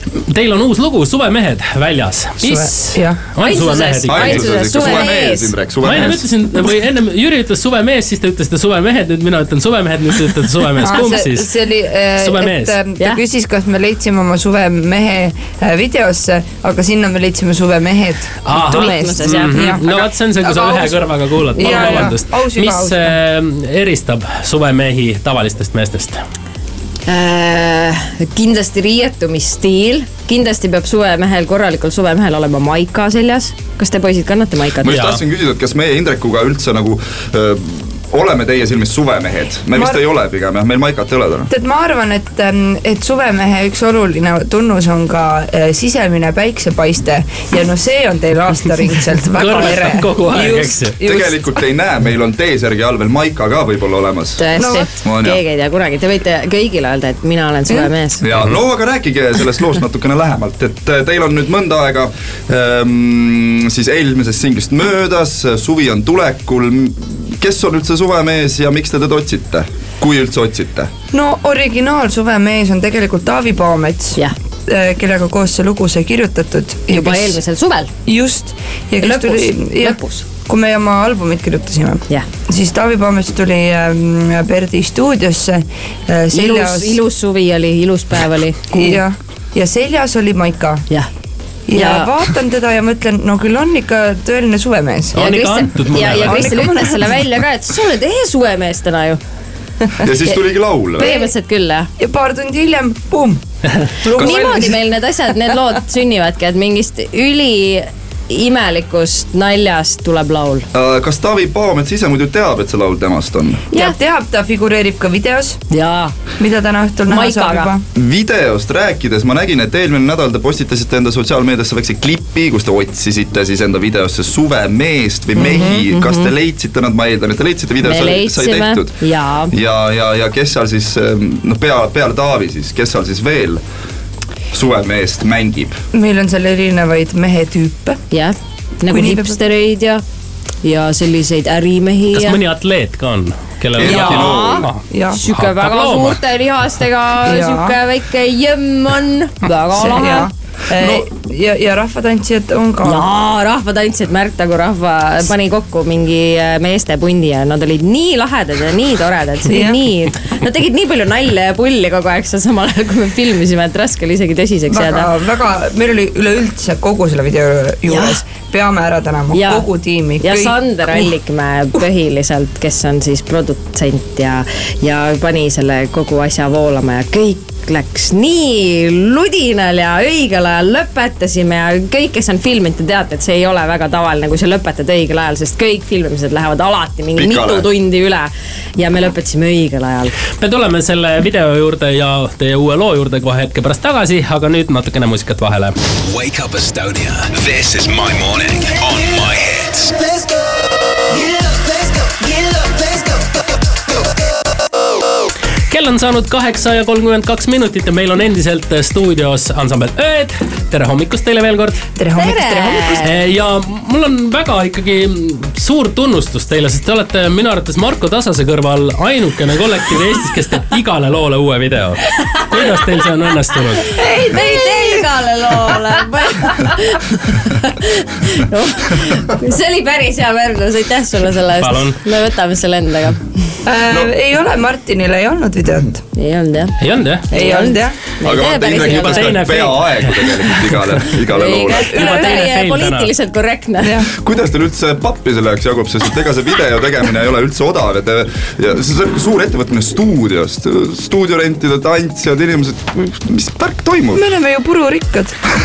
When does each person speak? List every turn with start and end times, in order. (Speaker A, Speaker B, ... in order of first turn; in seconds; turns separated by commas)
Speaker A: 0.1-4.9, Speaker B: 2.4-3.2, Speaker C: 3.4-5.5, Speaker D: 4.1-6.2, Speaker A: 5.8-11.5, Speaker B: 10.8-23.1, Speaker A: 12.2-12.8, Speaker A: 18.4-26.2, Speaker C: 18.6-19.6, Speaker C: 21.6-22.1, Speaker C: 27.1-35.0, Speaker D: 34.8-41.5, Speaker A: 34.9-35.2, Speaker B: 39.7-40.0, Speaker B: 41.5-51.4, Speaker A: 49.3-51.0, Speaker D: 51.0-54.4, Speaker C: 54.4-58.2, Speaker B: 54.5-54.9, Speaker D: 55.0-55.4, Speaker D: 58.2-70.9, Speaker B: 71.1-77.4, Speaker C: 76.9-77.9, Speaker B: 78.0-87.0, Speaker C: 79.0-80.2, Speaker C: 86.3-89.0, Speaker B: 88.7-90.8, Speaker B: 91.7-95.2, Speaker C: 91.7-92.1, Speaker A: 95.1-96.7, Speaker C: 95.2-99.2, Speaker B: 96.0-97.2, Speaker D: 100.0-101.1, Speaker B: 101.0-101.3, Speaker C: 101.0-101.9, Speaker B: 102.0-104.8, Speaker C: 104.2-110.7, Speaker D: 104.2-104.5, Speaker D: 110.7-113.6, Speaker B: 113.7-115.6, Speaker C: 115.7-116.1, Speaker B: 116.4-117.8, Speaker C: 117.1-117.7, Speaker D: 117.9-129.0, Speaker B: 125.4-125.8, Speaker C: 125.5-126.3, Speaker C: 127.8-129.5, Speaker D: 129.5-133.6, Speaker D: 134.5-135.8, Speaker B: 135.9-138.0, Speaker C: 138.1-140.0, Speaker B: 138.9-139.4, Speaker C: 140.6-142.4, Speaker A: 142.1-146.2, Speaker D: 143.8-144.7, Speaker C: 143.8-150.3, Speaker B: 143.8-145.2, Speaker B: 147.2-147.8, Speaker B: 149.8-153.1, Speaker C: 152.8-165.1, Speaker B: 159.5-159.8, Speaker B: 164.7-171.1, Speaker C: 167.9-168.2, Speaker C: 169.3-169.7, Speaker C: 170.2-190.1, Speaker D: 187.2-187.7, Speaker A: 190.4-195.8, Speaker E: 196.1-199.9, Speaker A: 205.7-211.8, Speaker B: 211.9-213.0, Speaker C: 212.2-213.2, Speaker A: 213.0-223.9, Speaker C: 223.8-233.6, Speaker B: 223.9-225.1, Speaker A: 231.6-232.0, Speaker B: 233.6-236.0, Speaker C: 236.2-239.5, Speaker A: 236.8-237.2, Speaker B: 237.3-238.0, Speaker D: 238.2-241.9, Speaker A: 238.7-240.8, Speaker C: 241.2-243.9, Speaker A: 241.7-243.1, Speaker B: 241.8-242.5, Speaker B: 243.8-244.1, Speaker D: 244.1-254.2, Speaker B: 254.1-255.4